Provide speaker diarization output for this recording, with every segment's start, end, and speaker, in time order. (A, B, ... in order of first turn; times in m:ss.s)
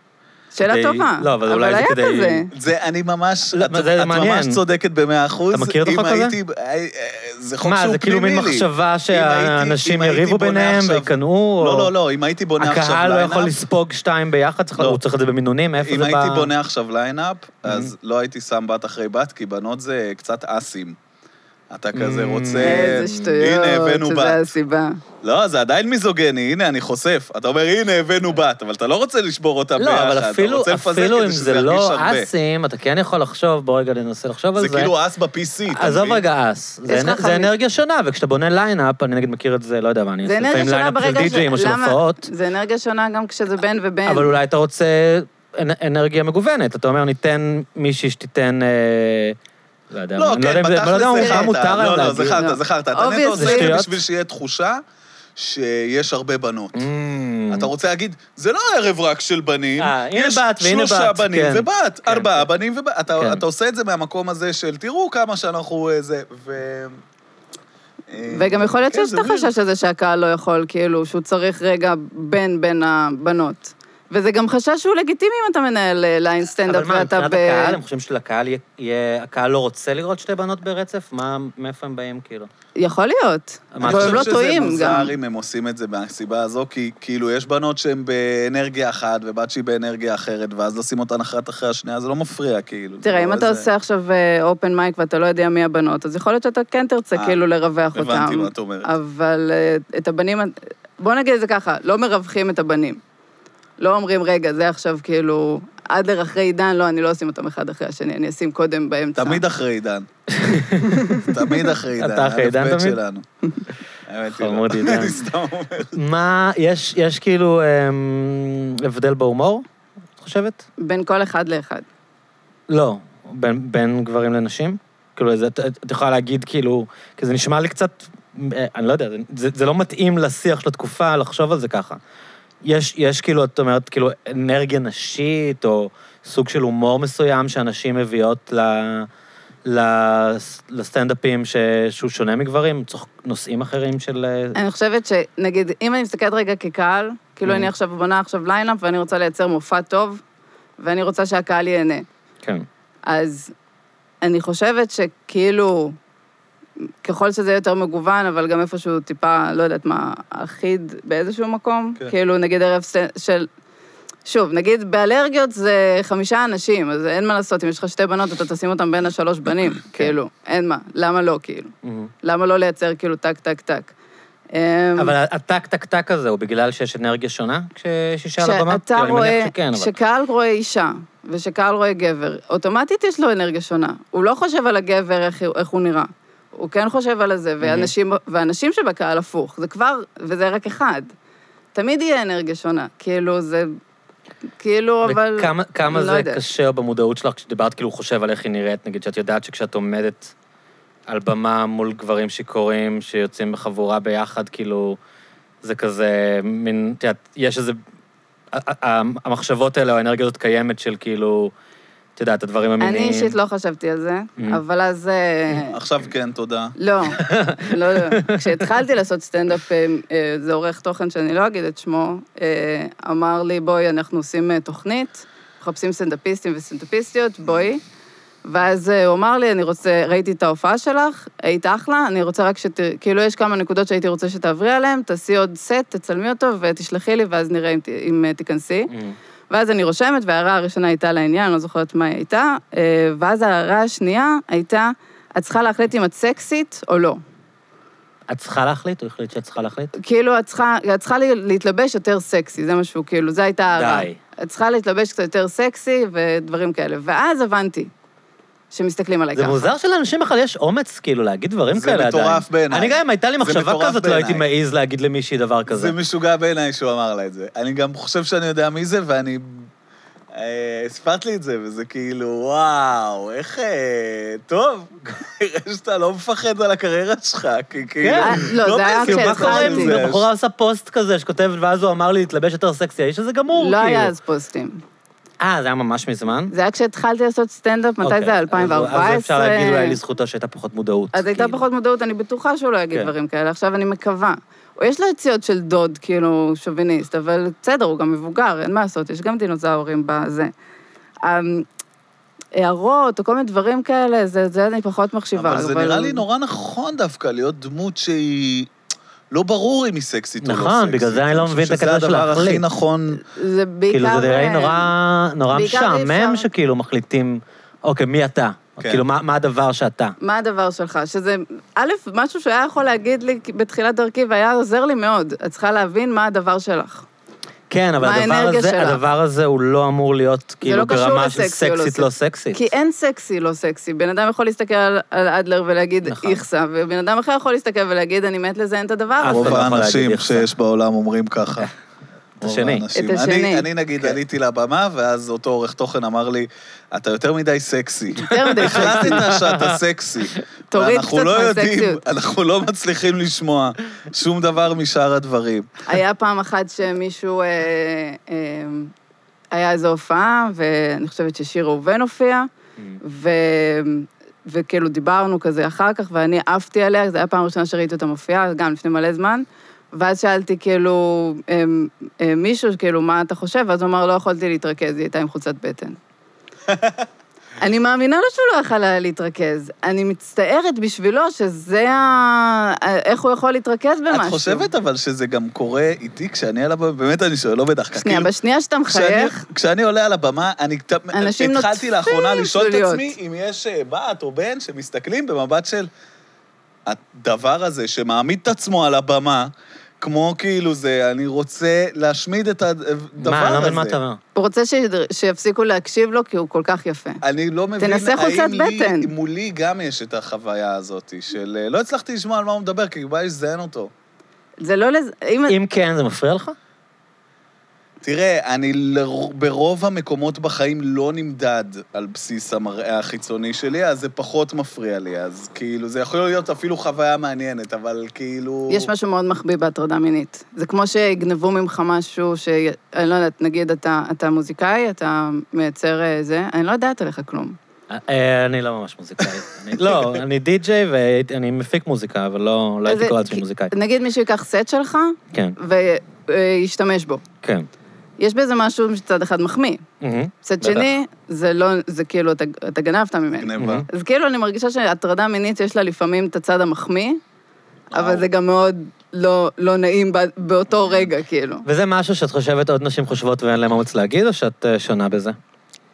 0:00.5-0:02.5 A
0:00.6-0:02.5 B
0:02.5-0:13.5 C
0:03.5-0:04.6 B
0:05.5-0:06.4 B
0:07.6-0:11.9 B
0:12.6-0:16.5 B
0:15.8-0:21.0 C
0:17.7-0:17.9 B
0:21.7-0:24.5 C
0:21.9-0:23.3 B
0:22.6-0:25.0 A
0:25.2-0:32.3 C
0:29.8-0:34.9 B
0:34.6-0:36.2 C
0:35.7-0:42.3 B
0:36.9-0:37.5 A
0:40.2-0:44.3 A
0:44.1-0:49.4 B
0:49.9-0:52.4 B
0:50.2-0:54.8 C
0:51.2-0:51.6 A
0:52.3-0:53.7 A
0:53.4-0:54.0 B
0:55.4-0:56.9 C
0:56.8-0:57.7 B
0:57.5-1:07.0 C
0:59.8-1:02.5 B
1:03.2-1:03.4 B
1:08.1-1:09.5 C
1:08.3-1:17.8 A
1:16.6-1:22.5 B
1:22.8-1:25.1 A
1:23.7-1:24.4 B
1:23.8-1:33.7 C
1:33.0-1:43.0 A
1:37.1-1:37.4 C
1:38.0-1:38.9 C
1:43.8-1:49.4 A
1:49.2-1:50.1 C
1:50.3-1:51.2 B
1:50.9-1:51.3 A
1:51.2-1:53.2 C
1:52.0-1:53.0 B
1:54.1-1:56.0 C
1:54.3-1:55.2 B
1:55.9-1:59.6 B
2:00.2-2:00.6 B
2:00.8-2:01.8 A
2:02.7-2:12.0 B
2:12.6-2:19.1 B
2:19.7-2:24.6 B
2:24.6-2:30.2 A
2:30.8-2:32.1 A
2:33.1-2:33.5 A
2:34.2-2:36.0 A
2:37.0-2:43.5 A
2:44.3-2:51.7 A
2:51.8-2:52.1 B
2:52.2-2:53.9 A
2:54.5-2:55.2 A
2:55.0-3:00.0 B
2:58.4-3:11.1 A
3:07.6-3:07.9 B
3:11.8-3:13.7 A
3:14.6-3:16.4 A
3:15.0-3:20.3 B
3:21.1-3:25.0 B
3:25.6-3:27.8 B
3:28.5-3:31.5 B
3:32.2-3:33.3 B
3:32.8-3:35.8 A
3:35.7-3:36.8 C
3:36.8-3:47.8 A
3:37.2-3:38.4 B
3:48.4-3:58.9 A
3:58.9-3:59.2 B
3:59.5-4:07.2 A
4:08.3-4:09.9 B
4:10.0-4:17.9 A
4:13.8-4:14.2 B
4:18.7-4:19.7 A
4:19.4-4:25.9 B
4:21.7-4:24.4 C
4:25.7-4:29.7 C
4:30.4-4:40.3 C
4:38.0-4:44.1 B
4:38.2-4:40.0 A
4:43.5-4:44.8 A
4:45.4-4:46.5 B
4:46.5-4:50.0 A
4:48.0-4:51.6 B
4:51.1-5:00.5 A
5:01.2-5:01.7 A
5:02.6-5:06.2 A
5:05.4-5:08.7 C
5:09.3-5:13.2 C
5:10.4-5:12.6 B
5:13.2-5:14.9 A
5:13.9-5:20.2 B
5:15.5-5:16.5 A
5:20.2-5:27.1 A
5:27.7-5:32.7 B
5:28.0-5:29.0 A
5:30.6-5:39.6 A
5:36.1-5:36.4 B
5:39.2-5:40.5 B
5:39.3-5:41.7 C
5:42.4-5:42.9 B
5:42.4-5:55.7 C
5:43.0-5:43.7 A
5:48.2-5:49.2 A
5:48.5-5:49.8 B
5:50.7-5:52.0 A
5:55.8-5:58.9 A
5:59.5-6:02.5 A
6:03.0-6:16.0 A
6:16.7-6:17.0 C
6:17.6-6:24.7 A
6:24.1-6:28.3 C
6:28.0-6:29.4 A
6:28.9-6:35.9 C
6:31.1-6:33.1 A
6:36.9-6:44.0 C
6:43.2-6:44.2 B
6:44.4-6:47.2 A
6:47.2-6:53.9 C
6:47.8-6:49.1 A
6:54.6-6:55.6 A
6:55.5-6:56.6 B
6:58.0-7:08.9 C
7:08.7-7:17.6 A
7:17.9-7:23.7 B
7:19.8-7:20.2 C
7:22.9-7:27.2 A
7:27.4-7:27.7 B
7:28.2-7:29.8 A
7:30.0-7:30.9 B
7:30.4-7:37.2 A
7:33.4-7:33.9 C
7:33.6-7:33.9 B
7:37.9-7:41.6 A
7:37.9-7:38.3 C
7:41.6-7:45.4 B